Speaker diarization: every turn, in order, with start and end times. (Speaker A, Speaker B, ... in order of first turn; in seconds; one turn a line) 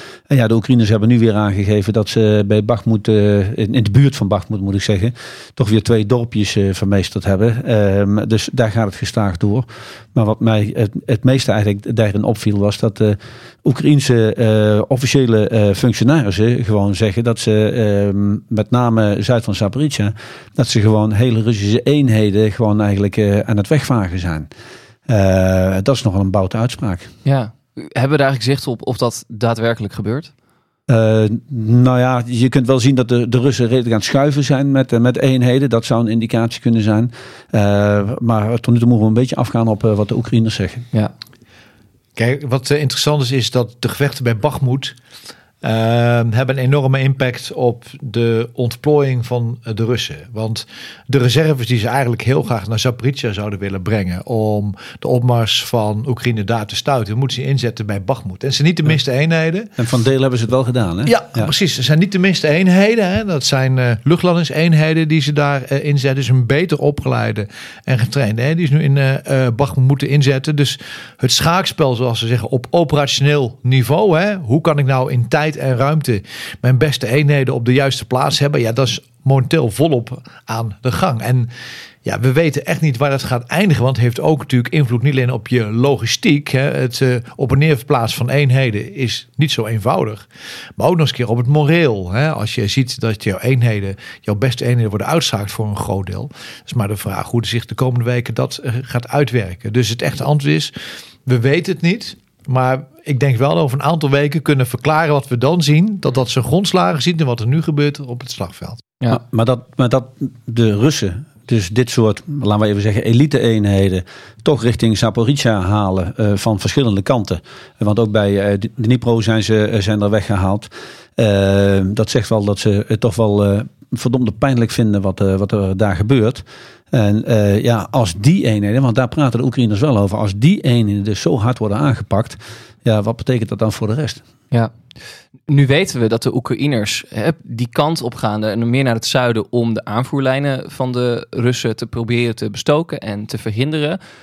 Speaker A: 0.3-24.5
Speaker A: 25.1-27.1
Speaker B: 27.2-30.3
Speaker A: 30.9-40.9
Speaker C: 42.1-45.0
Speaker C: 45.6-59.7
Speaker A: 59.8-61.5
Speaker C: 61.0-81.5
Speaker C: 82.0-90.2
Speaker C: 90.8-100.7
Speaker C: 101.2-108.8
Speaker A: 109.1-134.2
Speaker B: 135.5-144.0